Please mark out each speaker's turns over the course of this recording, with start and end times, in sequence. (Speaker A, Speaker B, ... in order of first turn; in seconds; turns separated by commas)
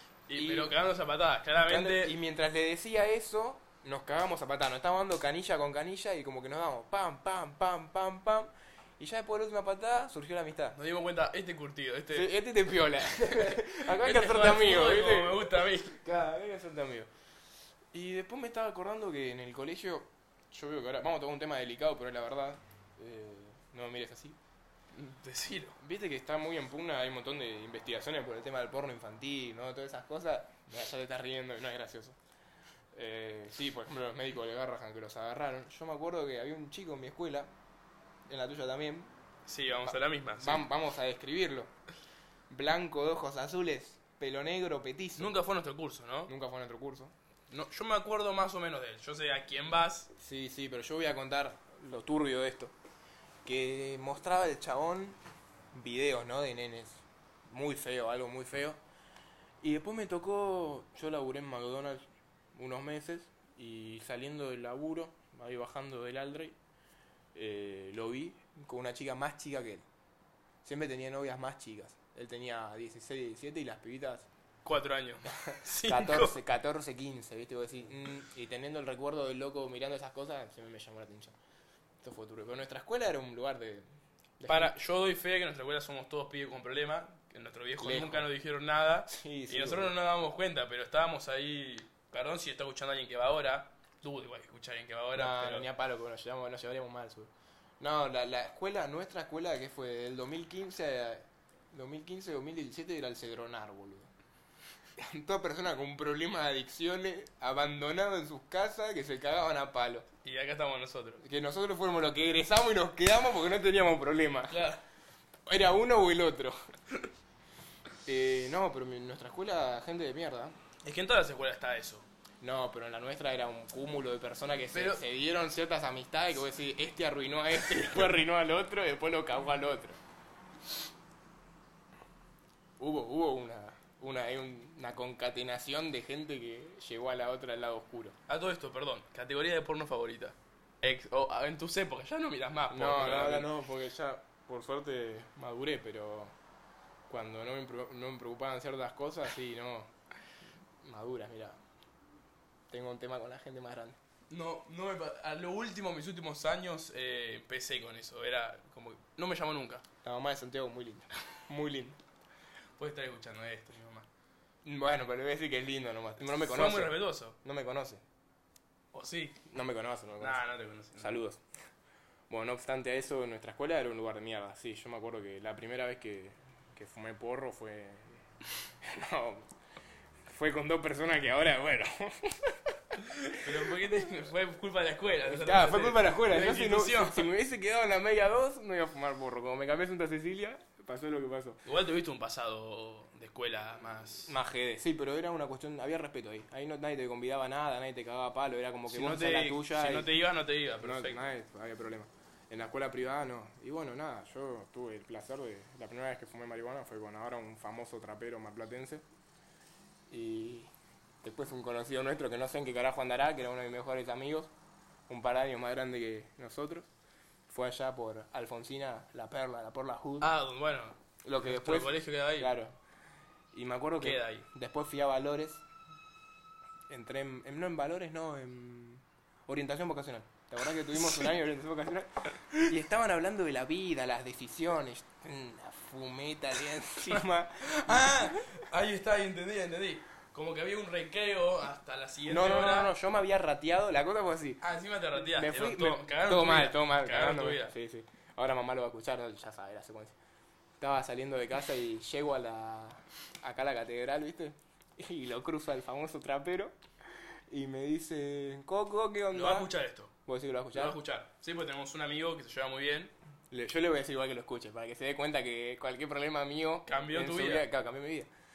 Speaker A: 0.3-2.1, Speaker B: 0.3-0.8, Speaker B: 1.6-10.8, Speaker A: 10.8-12.3, Speaker B: 12.1-17.1, Speaker A: 13.3-16.0, Speaker B: 17.9-24.4, Speaker A: 24.9-25.8, Speaker B: 25.8-32.2, Speaker B: 32.9-37.5, Speaker B: 38.3-39.1, Speaker A: 39.5-40.7, Speaker B: 39.9-41.7, Speaker B: 42.5-45.4, Speaker A: 45.2-46.3, Speaker B: 46.3-47.1, Speaker A: 47.5-50.1, Speaker B: 50.2-52.7, Speaker B: 53.5-55.2, Speaker B: 55.7-58.8, Speaker B: 59.6-62.0, Speaker B: 62.5-66.6, Speaker B: 67.3-69.8, Speaker B: 70.6-74.3, Speaker A: 74.7-76.4, Speaker B: 75.3-81.4, Speaker B: 82.0-83.8, Speaker B: 84.4-84.7, Speaker A: 84.5-95.7, Speaker B: 87.8-88.3, Speaker B: 89.1-89.9, Speaker B: 95.2-104.1, Speaker B: 105.0-110.1, Speaker A: 110.2-111.2, Speaker B: 111.2-114.7, Speaker A: 114.5-114.8, Speaker B: 115.5-116.6, Speaker B: 118.0-120.6, Speaker A: 120.8-122.1, Speaker B: 122.4-130.0, Speaker A: 124.7-125.0, Speaker B: 132.8-138.2, Speaker A: 138.3-143.5, Speaker B: 142.7-146.3, Speaker B: 147.1-149.9, Speaker B: 150.8-151.6, Speaker B: 152.7-154.0, Speaker A: 154.3-159.8, Speaker B: 160.0-162.0, Speaker A: 162.8-164.1, Speaker B: 164.6-168.0, Speaker A: 166.4-167.4, Speaker A: 168.9-169.4, Speaker B: 169.5-170.4, Speaker A: 170.2-171.2, Speaker B: 171.0-171.4, Speaker B: 172.3-178.2, Speaker B: 178.8-179.5, Speaker B: 180.2-183.8, Speaker A: 183.1-187.3, Speaker B: 185.2-191.6, Speaker A: 191.7-194.3, Speaker B: 194.3-200.1, Speaker A: 198.9-201.2, Speaker B: 200.8-209.0, Speaker B: 210.1-210.7, Speaker B: 211.2-214.5, Speaker B: 215.1-216.9, Speaker B: 217.5-220.3, Speaker A: 220.2-222.5, Speaker B: 221.2-222.8, Speaker B: 223.5-225.6, Speaker A: 224.0-224.5, Speaker B: 226.9-238.6, Speaker A: 237.7-242.9, Speaker B: 242.3-244.6, Speaker A: 244.6-247.7, Speaker B: 245.2-250.2, Speaker B: 250.8-256.8, Speaker B: 257.5-259.7, Speaker A: 259.3-260.1, Speaker B: 260.3-261.0, Speaker A: 260.7-263.1, Speaker B: 263.5-268.3, Speaker A: 266.9-267.7